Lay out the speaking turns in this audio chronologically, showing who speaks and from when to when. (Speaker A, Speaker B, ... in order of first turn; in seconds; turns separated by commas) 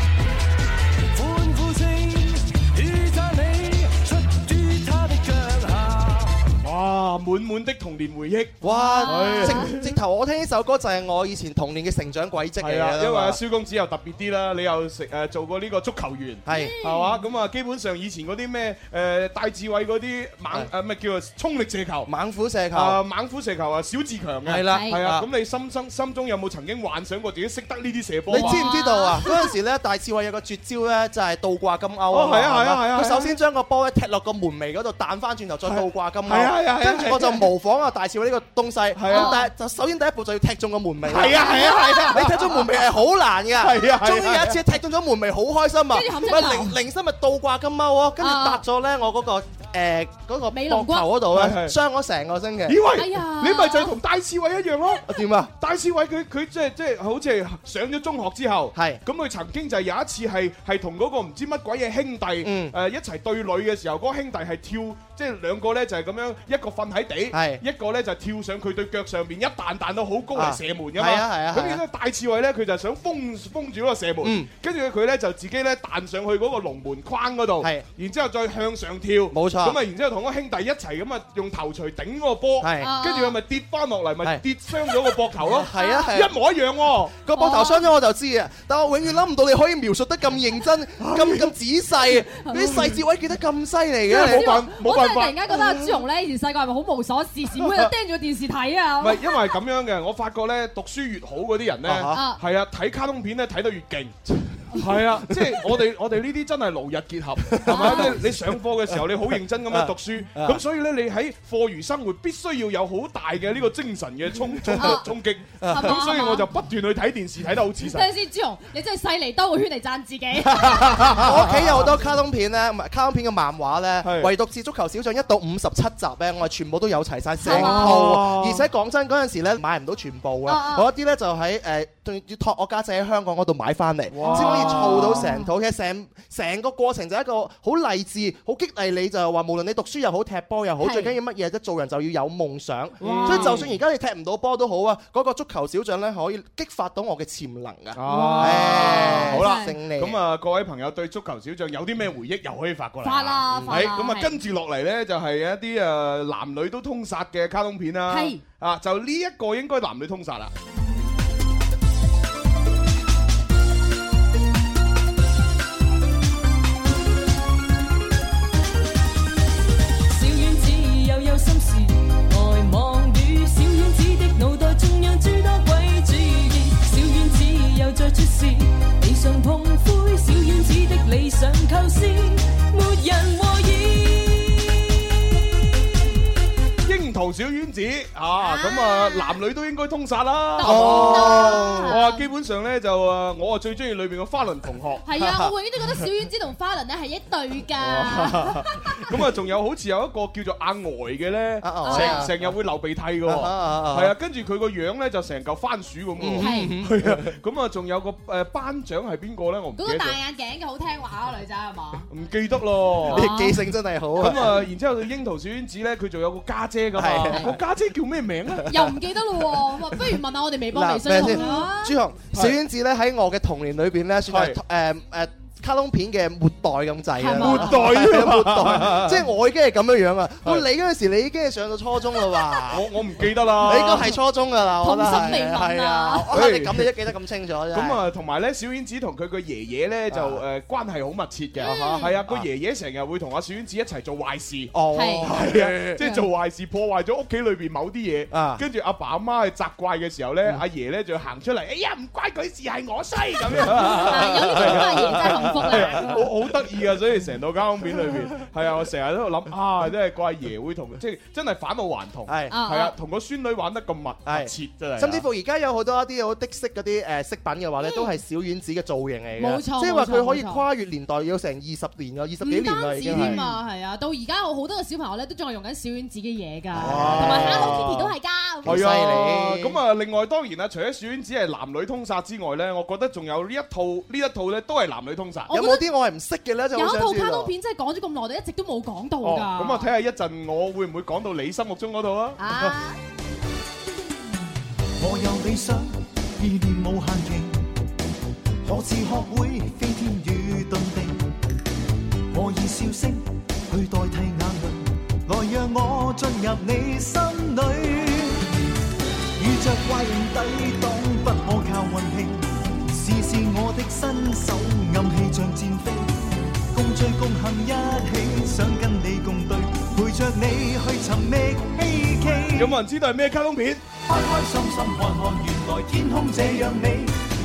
Speaker A: 1.1-6.4, Speaker B: 6.6-9.9, Speaker C: 8.6-13.4, Speaker D: 8.6-9.7, Speaker B: 12.6-22.1, Speaker C: 16.5-16.8, Speaker D: 16.5-17.2, Speaker C: 22.1-23.0, Speaker B: 22.7-28.7, Speaker C: 24.5-25.3, Speaker D: 24.7-25.0, Speaker D: 28.3-29.5, Speaker C: 28.3-52.8, Speaker B: 32.1-33.3, Speaker B: 35.7-37.5, Speaker B: 39.0-39.4, Speaker D: 39.1-39.5, Speaker B: 41.1-42.7, Speaker D: 41.4-42.2, Speaker B: 43.6-44.6, Speaker D: 45.9-46.8, Speaker D: 48.2-48.6, Speaker D: 50.5-51.1, Speaker B: 51.3-51.8, Speaker B: 52.7-55.0, Speaker D: 52.9-54.0, Speaker C: 55.1-55.5, Speaker B: 55.6-87.2, Speaker C: 58.8-59.0, Speaker C: 62.4-62.8, Speaker C: 67.3-67.6, Speaker C: 70.3-71.8, Speaker C: 74.2-74.5, Speaker C: 79.3-79.8, Speaker C: 82.6-82.9, Speaker D: 82.8-83.4, Speaker C: 85.4-86.3, Speaker D: 85.8-86.1, Speaker C: 87.2-94.6, Speaker D: 87.3-87.9, Speaker B: 91.0-91.5, Speaker D: 92.1-92.8, Speaker B: 92.6-92.9, Speaker D: 94.1-99.5, Speaker B: 94.1-96.0, Speaker B: 99.0-118.1, Speaker C: 101.8-102.2, Speaker D: 102.1-102.4, Speaker C: 107.5-108.2, Speaker D: 107.7-108.2, Speaker C: 109.7-110.6, Speaker C: 114.7-115.0, Speaker D: 114.7-115.1, Speaker C: 115.6-116.0, Speaker D: 115.6-116.5, Speaker D: 117.8-121.3, Speaker B: 120.5-121.9, Speaker C: 121.0-150.2, Speaker B: 124.0-124.3, Speaker D: 127.4-128.2, Speaker B: 127.5-128.6, Speaker D: 130.5-130.9, Speaker B: 134.1-135.3, Speaker D: 134.2-135.5, Speaker D: 140.8-141.2, Speaker B: 143.0-143.7, Speaker D: 143.0-143.7, Speaker B: 148.0-160.5, Speaker D: 148.1-149.8, Speaker D: 153.0-154.3, Speaker C: 153.5-153.9, Speaker D: 158.1-158.4, Speaker E: 170.1-184.7, Speaker B: 186.8-195.1, Speaker D: 188.4-189.4, Speaker D: 190.6-192.3, Speaker C: 190.6-191.9, Speaker D: 195.1-199.2, Speaker C: 195.2-195.5, Speaker B: 197.8-210.2, Speaker C: 201.6-202.5, Speaker D: 201.8-202.3, Speaker C: 203.2-204.1, Speaker C: 206.2-207.3, Speaker D: 206.4-206.8, Speaker D: 209.8-212.1, Speaker B: 212.1-213.3, Speaker D: 213.1-213.6, Speaker C: 213.1-214.6, Speaker B: 214.2-218.9, Speaker C: 217.0-217.6, Speaker D: 218.7-222.0, Speaker C: 220.7-232.8, Speaker B: 224.3-224.6, Speaker D: 227.2-228.0, Speaker B: 227.4-229.2, Speaker B: 232.7-234.1, Speaker C: 233.6-238.0, Speaker D: 234.8-236.3, Speaker B: 236.3-236.9, Speaker B: 237.7-244.7, Speaker C: 240.1-240.4, Speaker D: 241.6-242.2, Speaker C: 241.6-242.4, Speaker C: 244.7-246.0, Speaker D: 244.9-245.4, Speaker B: 245.2-265.3, Speaker D: 246.0-246.2, Speaker C: 248.3-248.6, Speaker C: 253.6-256.1, Speaker D: 253.8-256.2, Speaker C: 262.3-262.6, Speaker D: 262.5-262.9, Speaker C: 264.3-273.5, Speaker D: 267.8-268.1, Speaker D: 269.4-270.6, Speaker D: 272.4-279.0, Speaker B: 273.1-273.4, Speaker C: 276.7-277.9, Speaker B: 276.8-278.1, Speaker C: 278.6-279.8, Speaker B: 278.6-285.5, Speaker D: 285.5-285.9, Speaker C: 285.5-287.5, Speaker D: 286.7-289.9, Speaker B: 289.2-292.8, Speaker D: 292.4-293.0, Speaker A: 295.0-297.7, Speaker A: 298.6-301.3, Speaker A: 302.3-308.5, Speaker A: 309.4-322.7, Speaker B: 322.6-323.8, Speaker A: 324.1-327.2